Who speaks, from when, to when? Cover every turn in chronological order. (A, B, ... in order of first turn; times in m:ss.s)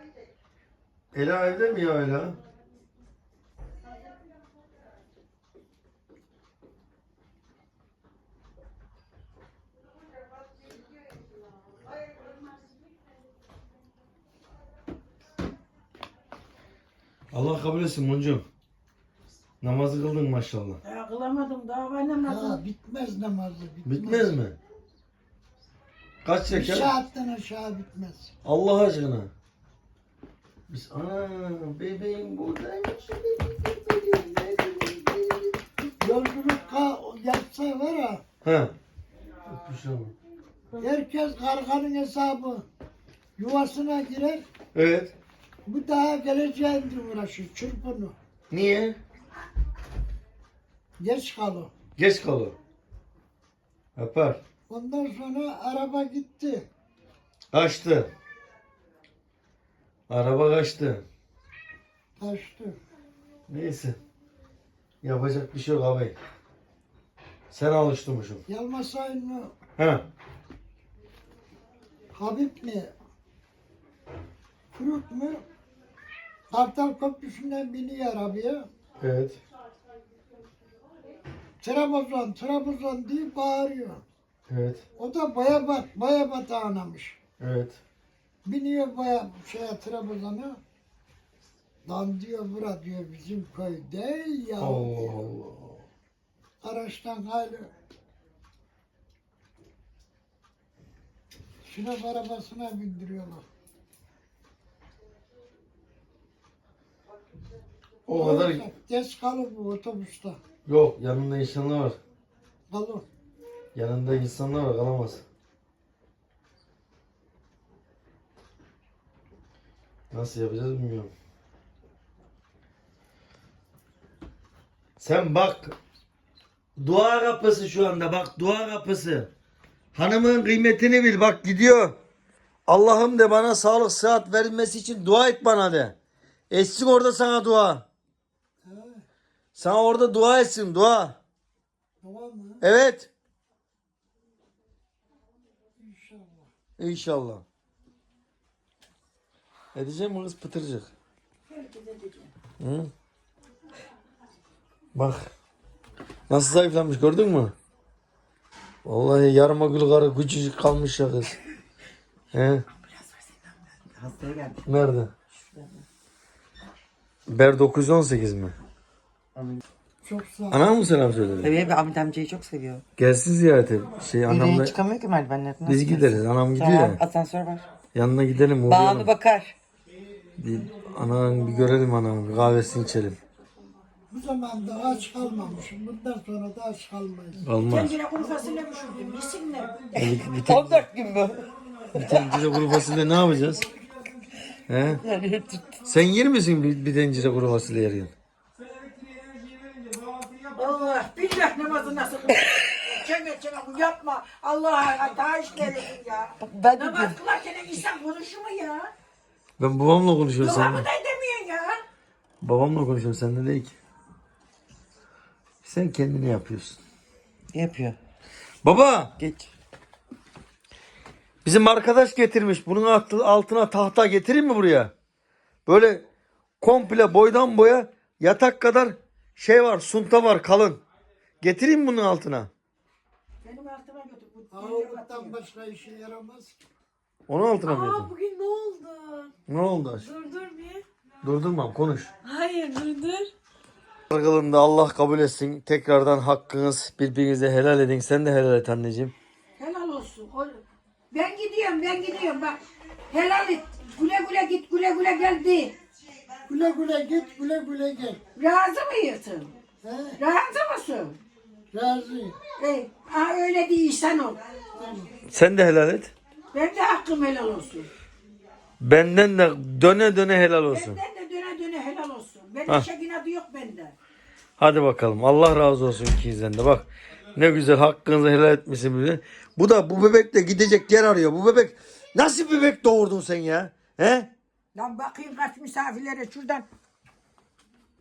0:01.1-0:02.4 A
0:17.3-0:18.4 A
0:19.6-0:20.8 A
0:20.8-0:22.6 B
0:22.2-0:24.3 C
0:23.8-0:24.6 A
0:26.2-0:26.9 A
0:26.5-0:28.3 C
0:28.4-0:29.3 A
0:30.7-0:35.7 A
0:36.0-0:38.2 C
0:38.4-0:38.7 A
0:39.4-0:40.1 A
0:40.8-0:42.6 C
0:43.4-0:44.4 C
0:44.7-0:45.1 A
0:45.6-0:48.1 C
0:48.5-0:49.0 A
0:51.0-0:51.7 C
0:52.0-0:52.6 A
0:54.0-0:54.4 A
0:54.7-0:56.7 C
0:57.5-0:58.1 A
1:00.1-1:01.0 A
1:02.2-1:02.8 C
1:03.5-1:04.0 A
1:05.0-1:06.2 A
1:07.5-1:08.4 A
1:08.5-1:09.5 C
1:09.8-1:10.0 A
1:12.1-1:12.9 C
1:14.7-1:15.4 C
1:16.5-1:18.7 C
1:19.0-1:19.4 A
1:21.6-1:24.0 C
1:24.5-1:24.8 A
1:25.0-1:27.2 C
1:27.4-1:27.8 A
1:28.4-1:30.6 C
1:31.8-1:35.2 C
1:34.6-1:35.8 A
1:36.6-1:37.7 C
1:41.6-1:43.4 C
1:48.1-1:48.7 A
1:48.1-1:50.4 C
1:50.6-1:52.0 A
1:52.7-1:53.1 C
1:53.7-1:55.2 A
2:00.1-2:01.1 A
2:05.0-2:05.8 A
2:06.8-2:09.3 A
2:09.9-2:11.9 A
2:12.7-2:16.0 A
2:16.5-2:17.8 A
2:18.6-2:19.0 C
2:19.5-2:21.2 A
2:22.0-2:22.6 C
2:22.6-2:23.1 A
2:25.8-2:26.5 C
2:26.8-2:27.4 A
2:29.7-2:30.9 A
2:31.5-2:32.3 B
2:32.6-2:32.9 A
2:34.9-2:35.3 A
2:36.3-2:37.5 A
2:38.8-2:41.4 A
2:42.3-2:42.6 A
2:43.9-2:44.6 D
2:44.6-2:45.1 A
2:45.3-2:45.8 D
2:47.3-2:48.5 A
2:50.0-2:50.7 C
2:50.5-2:51.6 A
2:51.4-2:52.8 D
2:53.0-2:54.8 A
2:54.3-2:57.7 D
2:55.6-2:57.0 A
2:57.9-2:59.1 A
2:58.6-2:59.5 D
3:00.4-3:03.2 A
3:04.1-3:07.4 C
3:07.4-3:08.0 A
3:07.7-3:09.9 B
3:09.9-3:10.8 A
3:09.9-3:12.9 D
3:11.9-3:13.7 A
3:14.7-3:15.0 A
3:15.0-3:15.8 D
3:15.8-3:18.1 A
3:20.5-3:28.9 B
3:26.4-3:27.2 D
3:29.6-3:30.9 A
3:30.4-3:31.8 B
3:32.4-3:33.8 A
3:35.6-3:36.8 A
3:37.5-3:38.0 D
3:38.6-3:39.1 A
3:39.2-3:39.5 D
3:41.4-3:44.9 A
3:45.6-3:46.0 A
3:46.6-3:50.8 A
3:51.4-3:52.5 A
3:53.4-3:55.3 B
3:54.5-3:56.5 C
3:57.3-3:58.1 A
3:57.6-3:59.2 E
3:58.1-3:59.2 B
3:59.5-4:00.1 A
4:00.2-4:00.7 E
4:00.2-4:00.7 B
4:01.2-4:02.1 A
4:02.3-4:03.3 E
4:02.3-4:02.9 B
4:04.1-4:09.1 A
4:09.6-4:10.6 B
4:11.1-4:15.7 B
4:16.5-4:18.2 C
4:18.3-4:19.5 B
4:19.8-4:20.2 C
4:20.2-4:21.2 B
4:21.7-4:22.4 C
4:22.6-4:24.4 B
4:24.8-4:25.1 C
4:25.3-4:26.1 A
4:26.5-4:27.9 B
4:28.8-4:31.0 A
4:30.7-4:33.9 B
4:34.6-4:44.3 A
4:44.7-4:46.7 B